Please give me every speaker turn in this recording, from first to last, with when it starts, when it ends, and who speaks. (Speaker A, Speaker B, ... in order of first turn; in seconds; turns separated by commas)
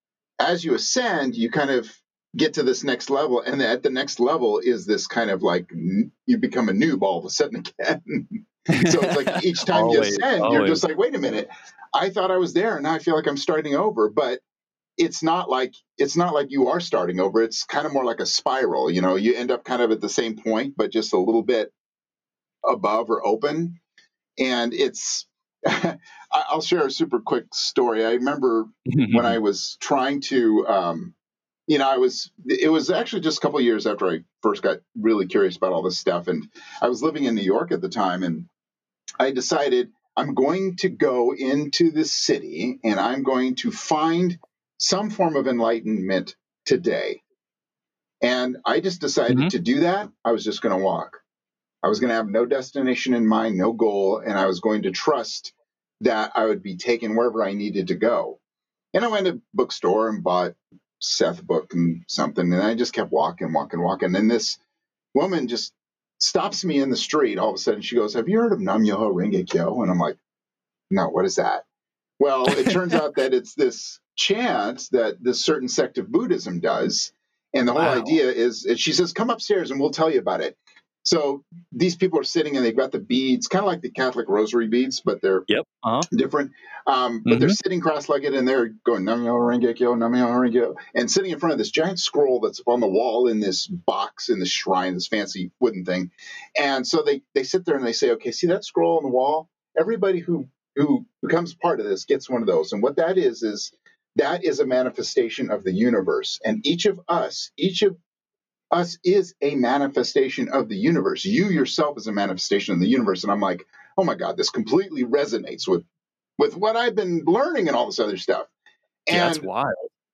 Speaker A: 0.4-14.4, Speaker B: 8.7-10.8, Speaker A: 15.0-21.7, Speaker A: 22.6-23.8, Speaker A: 24.4-31.1, Speaker B: 28.9-29.4, Speaker A: 31.7-38.5, Speaker A: 39.2-47.2, Speaker A: 48.2-51.2, Speaker A: 51.8-58.4, Speaker A: 58.9-64.6, Speaker A: 65.1-70.2, Speaker A: 70.9-71.6, Speaker A: 72.2-85.5, Speaker B: 77.8-78.2, Speaker B: 85.5-86.1, Speaker A: 86.1-108.0, Speaker B: 87.2-87.6, Speaker A: 108.7-115.8, Speaker A: 116.4-118.5, Speaker A: 119.1-119.5, Speaker B: 119.1-119.8